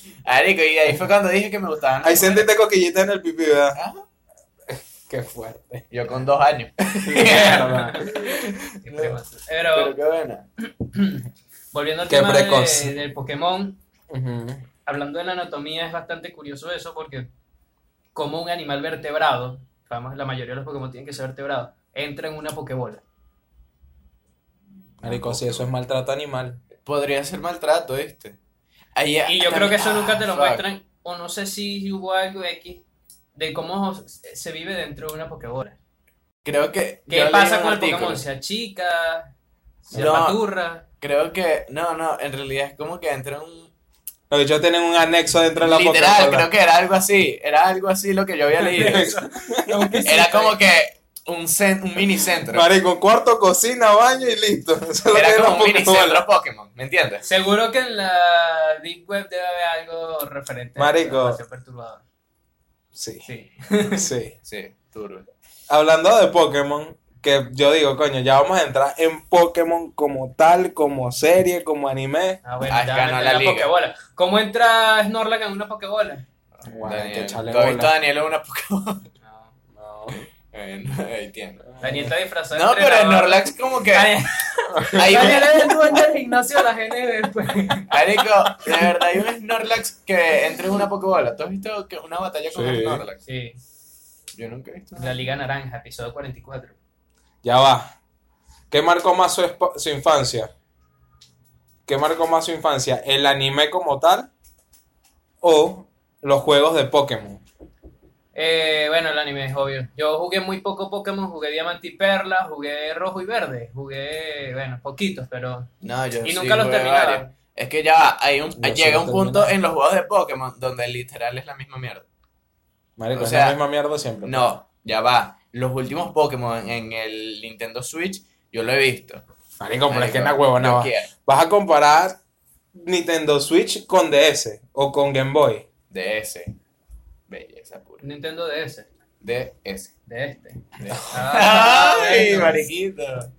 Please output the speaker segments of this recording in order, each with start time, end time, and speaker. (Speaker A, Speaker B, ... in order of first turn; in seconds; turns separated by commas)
Speaker A: 0.3-2.5, Speaker B: 2.0-3.8, Speaker A: 3.8-4.0, Speaker B: 4.7-5.9, Speaker A: 5.9-9.2, Speaker B: 7.0-7.9, Speaker C: 7.3-8.1, Speaker C: 8.8-10.0, Speaker A: 9.7-10.4, Speaker C: 10.7-13.8, Speaker B: 12.1-12.9, Speaker B: 14.1-14.6, Speaker C: 14.8-17.3, Speaker C: 18.1-23.0, Speaker A: 25.0-25.7, Speaker B: 25.0-26.6, Speaker A: 26.9-28.4, Speaker A: 29.0-30.6, Speaker C: 29.3-32.8, Speaker C: 33.4-35.8, Speaker A: 36.5-38.2, Speaker C: 37.1-39.3, Speaker C: 39.9-40.8, Speaker A: 39.9-40.4, Speaker A: 41.0-43.7, Speaker B: 44.3-46.5, Speaker A: 45.6-49.1, Speaker C: 48.6-50.6, Speaker B: 48.8-50.1, Speaker A: 50.0-52.6, Speaker B: 52.5-56.2, Speaker A: 55.1-57.2, Speaker C: 57.2-62.0, Speaker B: 60.8-61.4, Speaker B: 63.0-63.2, Speaker C: 63.2-64.1, Speaker B: 63.9-64.3, Speaker A: 64.5-65.3, Speaker B: 65.7-72.4, Speaker C: 72.4-76.2, Speaker A: 72.7-73.7, Speaker B: 76.7-77.9, Speaker A: 76.8-79.0, Speaker C: 79.2-79.5, Speaker B: 79.8-80.2, Speaker A: 80.5-81.7, Speaker C: 81.8-88.0, Speaker B: 81.8-82.1, Speaker A: 82.5-84.2, Speaker B: 84.9-85.2, Speaker A: 85.0-85.6, Speaker A: 87.9-93.2, Speaker B: 92.5-93.0, Speaker C: 93.3-93.6, Speaker A: 94.4-95.2, Speaker C: 95.0-96.8, Speaker B: 97.4-97.9, Speaker B: 98.7-100.5, Speaker B: 101.9-104.3, Speaker B: 105.4-107.4, Speaker C: 108.3-115.7, Speaker A: 115.8-122.1, Speaker C: 116.2-117.3, Speaker B: 118.6-119.5, Speaker B: 123.0-124.5, Speaker A: 123.1-123.6, Speaker A: 124.2-129.2, Speaker B: 129.6-132.2, Speaker A: 129.9-131.1, Speaker B: 132.8-135.7, Speaker A: 135.9-136.6, Speaker A: 137.3-138.0, Speaker C: 138.0-138.9, Speaker A: 139.2-139.9, Speaker C: 140.1-142.6, Speaker A: 140.8-143.3